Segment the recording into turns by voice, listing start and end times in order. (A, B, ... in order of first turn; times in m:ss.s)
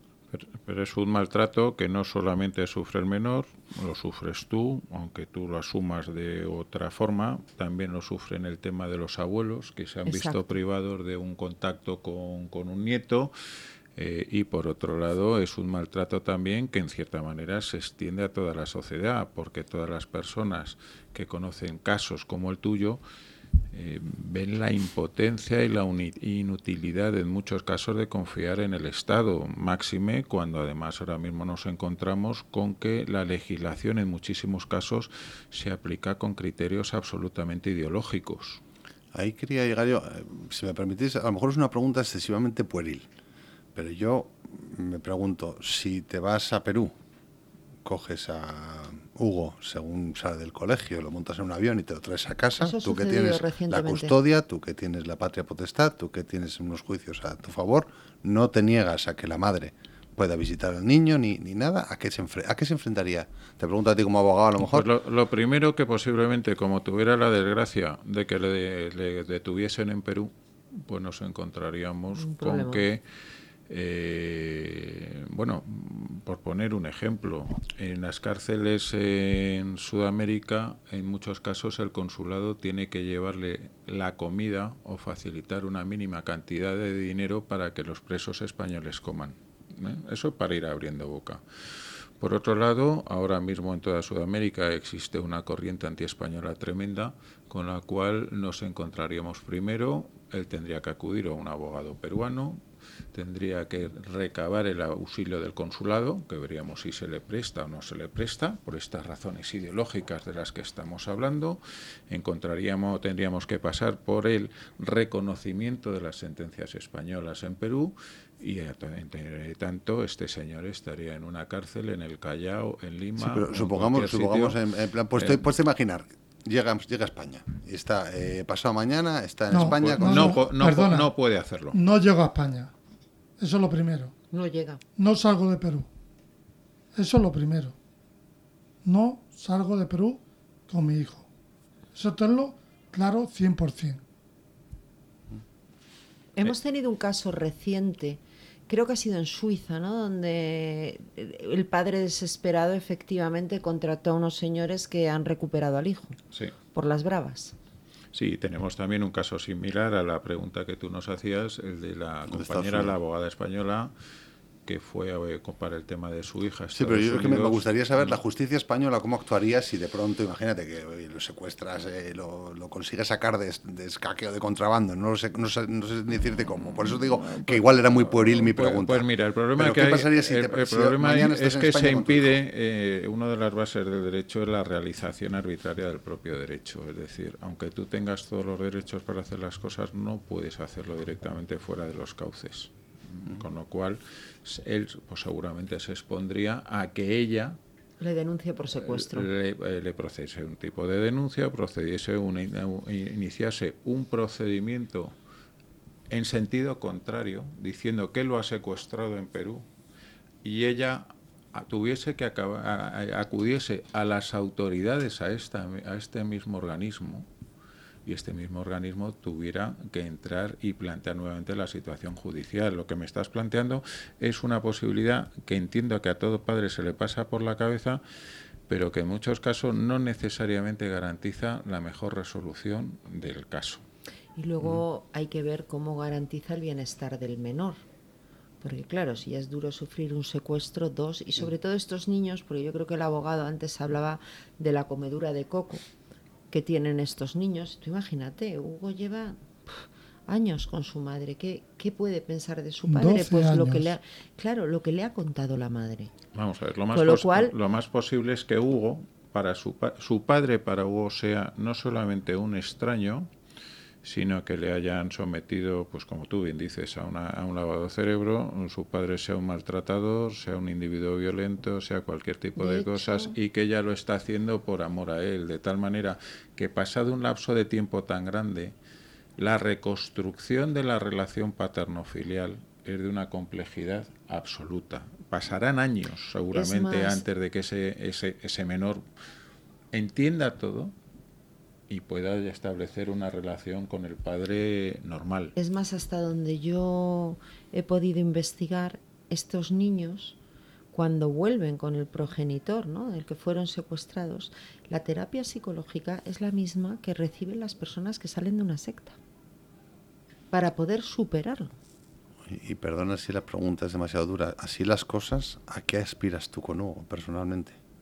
0:00.3-0:13.3 A
0:10.1-0:10.6 B
0:14.0-0:23.0 A
0:23.7-0:38.6 A
0:39.1-0:43.1 C
0:43.8-0:46.9 C
0:47.8-1:04.9 C
0:52.6-0:54.2 B
1:04.6-1:13.0 A
1:12.1-1:12.9 B
1:13.7-1:31.4 A
1:32.2-1:42.6 A
1:43.1-2:04.6 A
2:03.2-2:10.4 C
2:05.2-2:05.4 A
2:09.5-2:11.1 D
2:09.6-2:11.8 A
2:11.7-2:12.7 D
2:13.4-2:14.1 D
2:14.3-2:14.8 B
2:15.0-2:15.9 D
2:17.0-2:17.8 D
2:18.8-2:21.3 D
2:21.9-2:24.0 D
2:26.4-2:36.2 B
2:36.7-2:37.6 B
2:38.1-2:43.9 A
2:42.3-2:43.0 C
2:44.7-2:48.2 A
2:46.7-2:59.0 C
2:56.7-3:17.6 A
2:59.6-3:02.4 C
3:18.0-3:19.3 B
3:18.8-3:25.2 A
3:26.1-3:29.7 A
3:30.4-3:37.3 A
3:38.1-3:48.0 A
3:48.7-3:53.8 A
3:54.4-3:57.8 B
3:58.6-4:05.8 B
4:06.5-4:16.1 B
4:12.9-4:13.9 D
4:16.4-4:23.3 A
4:16.9-4:17.5 B
4:24.0-4:38.8 A
4:32.6-4:33.3 B
4:39.4-4:49.0 A
4:46.5-4:47.3 B
4:49.9-4:50.9 A
4:51.9-4:55.6 A
4:55.6-5:00.4 B
5:00.9-5:09.2 B
5:10.5-5:11.8 B
5:12.5-5:17.8 C